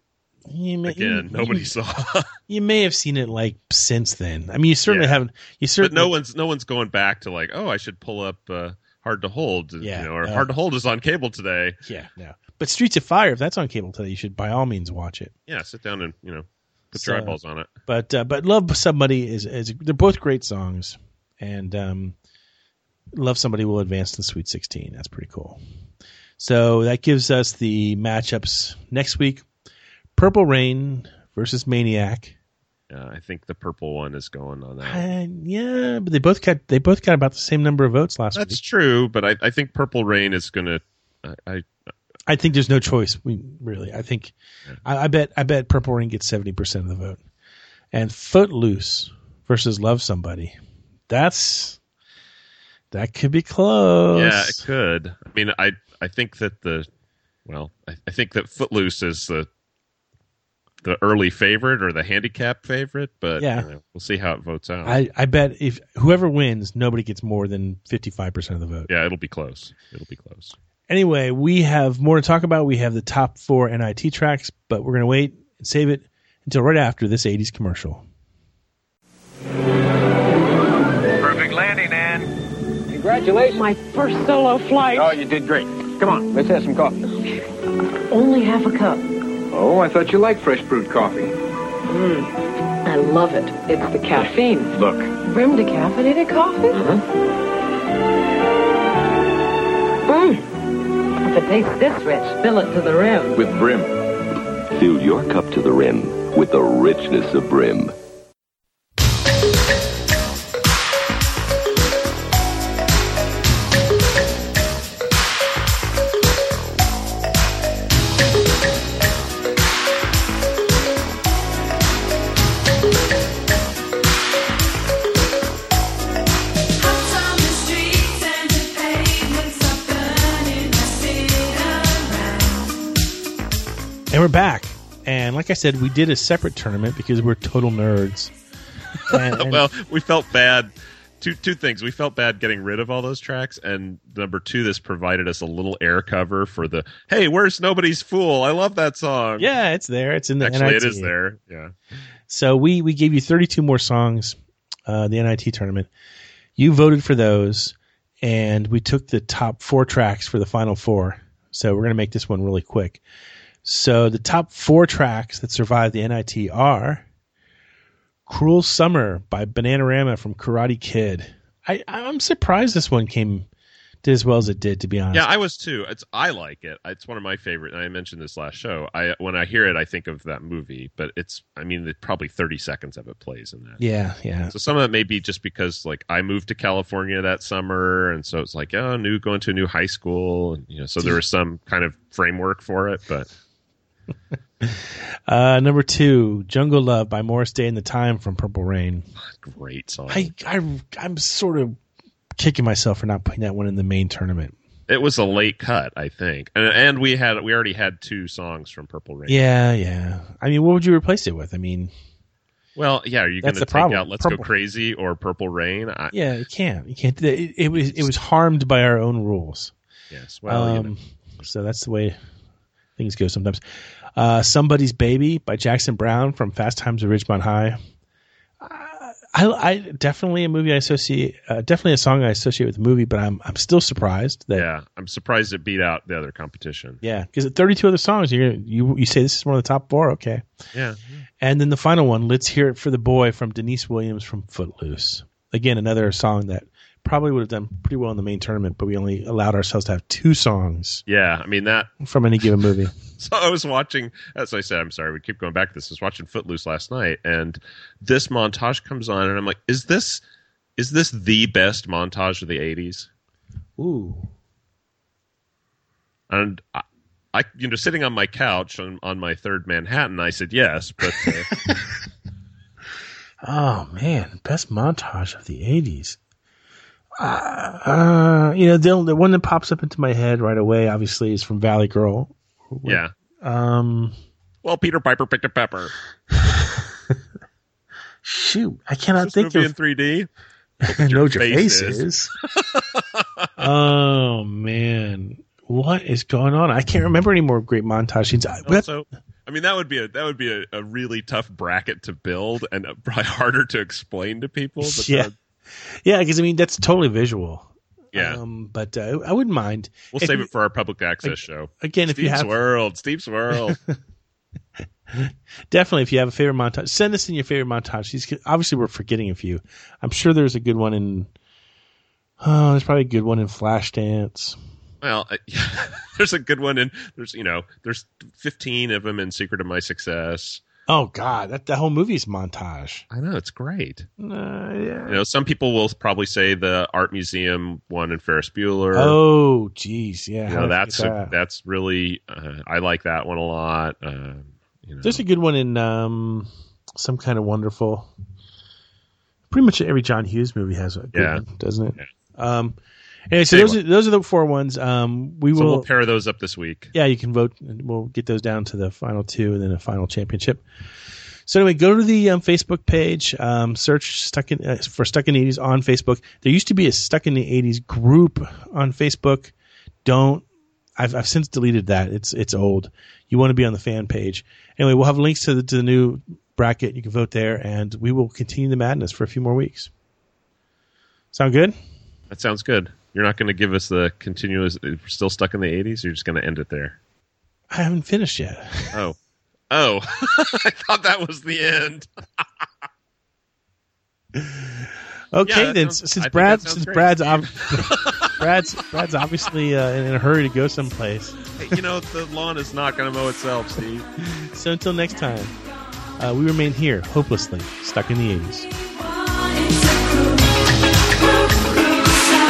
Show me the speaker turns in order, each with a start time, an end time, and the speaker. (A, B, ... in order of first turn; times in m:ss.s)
0:00.4-0:01.7 A
0:00.8-0:02.3 B
0:02.5-0:06.1 A
0:04.8-0:05.2 B
0:05.8-0:11.8 B
0:09.8-0:10.5 A
0:11.8-0:15.3 A
0:15.5-0:17.7 B
0:16.9-0:22.2 A
0:23.1-0:25.6 A
0:26.4-0:29.4 A
0:30.2-0:32.3 A
0:32.9-0:35.0 B
0:34.8-0:38.6 A
0:38.3-0:41.7 B
0:42.3-0:47.2 A
0:47.9-0:50.6 A
0:51.1-0:51.8 A
0:52.9-0:54.6 A
0:54.1-0:56.9 B
0:57.4-0:59.5 B
1:00.8-1:05.0 B
1:03.4-1:03.7 A
1:04.8-1:08.9 A
1:08.9-1:10.5 B
1:10.9-1:18.0 A
1:21.2-1:22.2 C
1:23.4-1:25.1 D
1:25.0-1:26.8 C
1:28.1-1:29.0 D
1:29.5-1:31.3 C
1:32.8-1:36.9 D
1:34.8-1:35.1 C
1:36.7-1:37.0 C
1:40.1-1:40.4 D
1:41.2-1:43.4 D
1:43.4-1:43.9 C
1:44.7-1:47.9 E
2:14.1-2:18.3 A
2:19.1-2:19.7 A
2:19.1-2:29.5 B
2:29.4-2:31.1 A
2:30.4-2:31.7 B
2:32.3-2:35.9 A
2:36.6-2:43.0 A
2:43.6-2:47.0 A
2:48.2-2:53.5 A
2:54.0-2:55.3 A
2:55.1-3:03.8 B
3:03.8-3:04.5 A
3:04.5-3:13.3 B
3:14.6-3:19.1 A
3:19.2-3:20.3 B
3:20.1-3:21.8 A
3:22.4-3:24.6 A
3:24.9-3:29.4 B
3:29.3-3:31.9 A
3:32.8-3:36.1 B
3:33.4-3:34.5 A
3:36.1-3:39.7 A
3:37.7-3:38.1 B
3:40.1-3:40.9 B
3:40.5-3:42.2 A
3:43.0-3:43.6 A
3:44.2-3:47.8 A
3:48.6-3:54.7 A
3:54.5-3:57.0 B
3:57.0-4:00.4 A
4:00.7-4:01.2 B
4:01.4-4:11.0 A
4:11.1-4:11.9 B
4:12.0-4:12.9 A
4:13.2-4:20.2 B
4:20.8-4:23.1 B
4:23.8-4:24.3 A
4:26.3-4:31.5 B
4:31.0-4:31.8 A
4:33.4-4:36.2 A
4:37.2-4:44.1 A
4:42.8-4:43.1 B
4:44.6-4:45.9 B
4:46.3-4:47.1 A
4:48.2-4:49.7 A
4:49.2-4:50.3 B
4:50.8-4:52.3 A
4:50.8-4:53.5 B
4:53.6-4:58.9 A
4:58.6-5:05.3 B
5:04.8-5:05.3 A
5:05.8-5:10.5 A
5:08.1-5:08.4 B
5:10.1-5:13.8 B
5:11.2-5:12.6 A
5:13.5-5:13.9 A
5:15.1-5:21.3 A
5:22.4-5:24.6 A
5:25.0-5:30.6 B
5:30.9-5:33.0 A
5:33.1-5:34.1 B
5:34.2-5:35.2 A
5:35.1-5:39.2 B
5:38.9-5:41.3 A
5:40.4-5:45.2 B
5:45.0-5:48.1 A
5:49.5-5:52.8 A
5:51.1-5:51.4 B
5:53.3-5:55.9 A
5:53.5-5:53.8 B
5:55.5-5:56.9 B
5:56.9-6:00.6 A
6:01.4-6:09.5 A
6:10.0-6:10.4 A
6:11.0-6:19.9 A
6:21.3-6:21.7 A
6:22.3-6:27.0 B
6:27.7-6:29.0 A
6:28.9-6:29.2 B
6:29.7-6:32.1 B
6:34.3-6:41.8 A
6:35.4-6:38.4 B
6:41.6-6:44.0 B
6:44.3-6:45.6 A
6:46.2-6:48.7 A